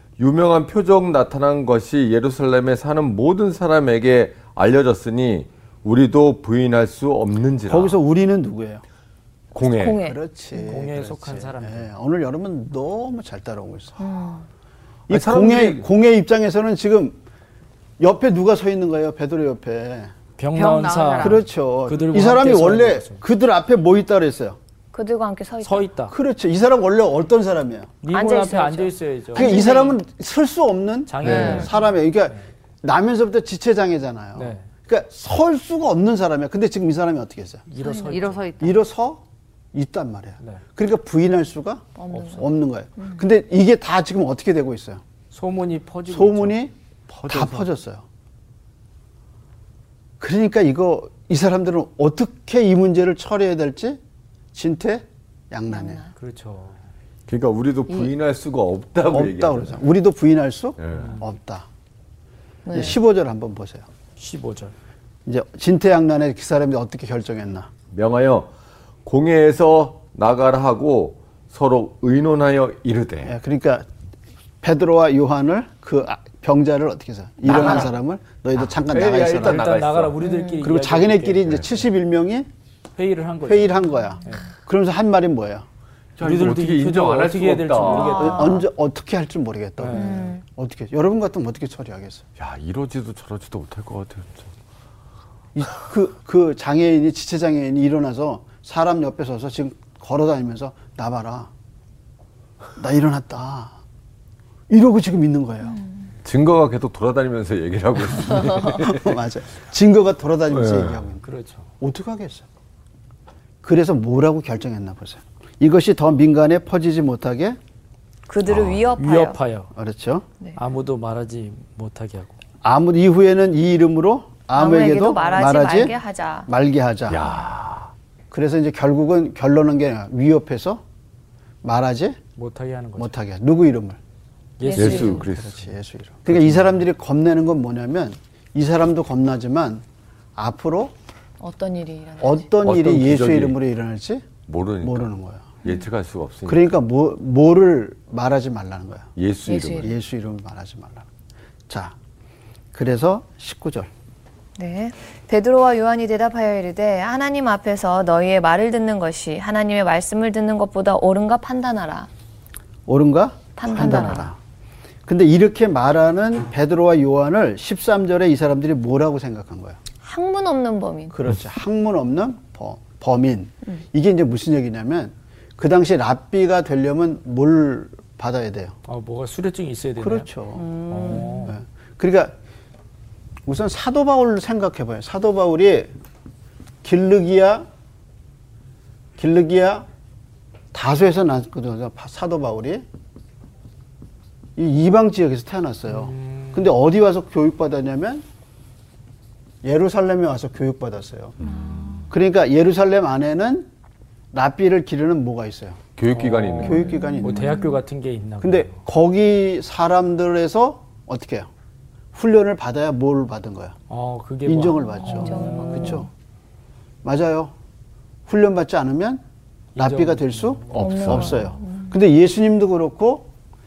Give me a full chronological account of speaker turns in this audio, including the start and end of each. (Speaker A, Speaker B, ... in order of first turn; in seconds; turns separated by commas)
Speaker A: 0.2-8.0, Speaker B: 7.7-8.8, Speaker A: 9.5-10.0, Speaker C: 9.6-10.2, Speaker B: 9.9-14.0, Speaker D: 10.6-11.9, Speaker C: 14.0-14.5, Speaker B: 15.1-17.2, Speaker A: 15.1-15.9, Speaker B: 18.0-20.1, Speaker D: 20.4-23.2, Speaker E: 20.6-21.4, Speaker B: 21.2-24.6, Speaker C: 24.9-25.9, Speaker D: 25.6-26.1, Speaker B: 26.1-28.0, Speaker D: 28.0-29.6, Speaker C: 28.1-30.0, Speaker B: 29.3-37.7, Speaker D: 31.1-32.4, Speaker E: 31.2-31.7, Speaker D: 34.4-34.7, Speaker D: 37.7-38.5, Speaker C: 37.8-38.1, Speaker E: 38.0-38.8, Speaker B: 38.6-45.0, Speaker C: 42.0-42.5, Speaker D: 45.3-46.6, Speaker B: 46.1-46.7, Speaker A: 47.2-47.6, Speaker B: 47.3-48.0, Speaker B: 50.2-54.0, Speaker B: 54.5-56.0, Speaker C: 55.7-56.1, Speaker D: 56.1-56.8, Speaker A: 57.3-59.8, Speaker B: 59.1-61.7, Speaker A: 60.8-61.2, Speaker D: 60.9-61.2, Speaker C: 62.6-63.0, Speaker B: 62.7-63.9, Speaker D: 64.2-64.7, Speaker B: 65.3-67.7, Speaker A: 67.9-68.5, Speaker A: 69.0-73.3, Speaker B: 73.2-73.9, Speaker B: 74.6-79.7, Speaker A: 77.5-77.8, Speaker A: 78.8-80.2, Speaker D: 79.3-81.6, Speaker C: 80.2-80.5, Speaker B: 80.6-82.5, Speaker D: 83.0-84.4, Speaker B: 83.5-85.7, Speaker A: 86.2-88.3, Speaker D: 86.2-88.6, Speaker C: 87.9-88.6, Speaker B: 88.1-92.2, Speaker D: 89.8-90.1, Speaker C: 89.9-90.4, Speaker A: 92.4-94.5, Speaker B: 95.5-101.5, Speaker B: 102.8-103.8, Speaker B: 104.7-105.8, Speaker A: 106.2-109.2, Speaker B: 108.8-111.2, Speaker A: 110.5-111.0, Speaker D: 111.2-111.7, Speaker B: 111.8-112.5, Speaker B: 113.6-117.6, Speaker C: 118.3-119.4, Speaker A: 118.5-118.9, Speaker D: 119.0-119.7, Speaker B: 119.8-120.3, Speaker D: 120.5-122.4, Speaker B: 122.6-127.3, Speaker C: 124.5-126.5, Speaker A: 127.1-127.9, Speaker B: 128.3-130.8, Speaker B: 131.6-132.2, Speaker D: 132.4-133.2, Speaker B: 133.0-134.0, Speaker D: 134.6-135.6, Speaker C: 134.6-135.3, Speaker A: 134.7-135.6, Speaker B: 135.5-139.8, Speaker A: 136.3-136.6, Speaker B: 140.4-140.9, Speaker C: 141.4-142.5, Speaker B: 142.2-144.3, Speaker A: 142.6-143.6, Speaker A: 144.5-145.1, Speaker B: 144.8-145.6, Speaker A: 145.6-146.7, Speaker B: 146.5-149.1, Speaker A: 149.2-149.9, Speaker C: 149.5-149.9, Speaker B: 149.7-151.1, Speaker B: 151.7-151.9, Speaker B: 152.7-153.9, Speaker C: 154.6-162.1, Speaker B: 162.9-164.4, Speaker C: 163.6-164.3, Speaker B: 165.1-169.8, Speaker C: 170.0-171.2, Speaker B: 171.1-178.8, Speaker D: 178.9-180.3, Speaker B: 180.0-182.3, Speaker E: 180.6-181.5, Speaker D: 180.9-181.6, Speaker B: 183.5-185.9, Speaker B: 186.8-187.7, Speaker B: 189.2-189.9, Speaker B: 190.7-192.8, Speaker B: 194.6-198.2, Speaker D: 195.9-196.7, Speaker B: 199.6-201.4, Speaker C: 201.5-202.0, Speaker B: 202.1-203.7, Speaker B: 204.3-205.8, Speaker A: 206.0-207.1, Speaker D: 206.1-208.8, Speaker B: 206.6-207.6, Speaker C: 206.9-207.7, Speaker B: 208.4-211.5, Speaker B: 212.1-213.8, Speaker D: 213.9-216.1, Speaker B: 214.4-216.1, Speaker C: 214.8-216.1, Speaker B: 217.0-217.5, Speaker B: 218.3-219.2, Speaker D: 219.8-221.0, Speaker B: 219.8-223.3, Speaker A: 220.7-221.4, Speaker C: 220.8-221.9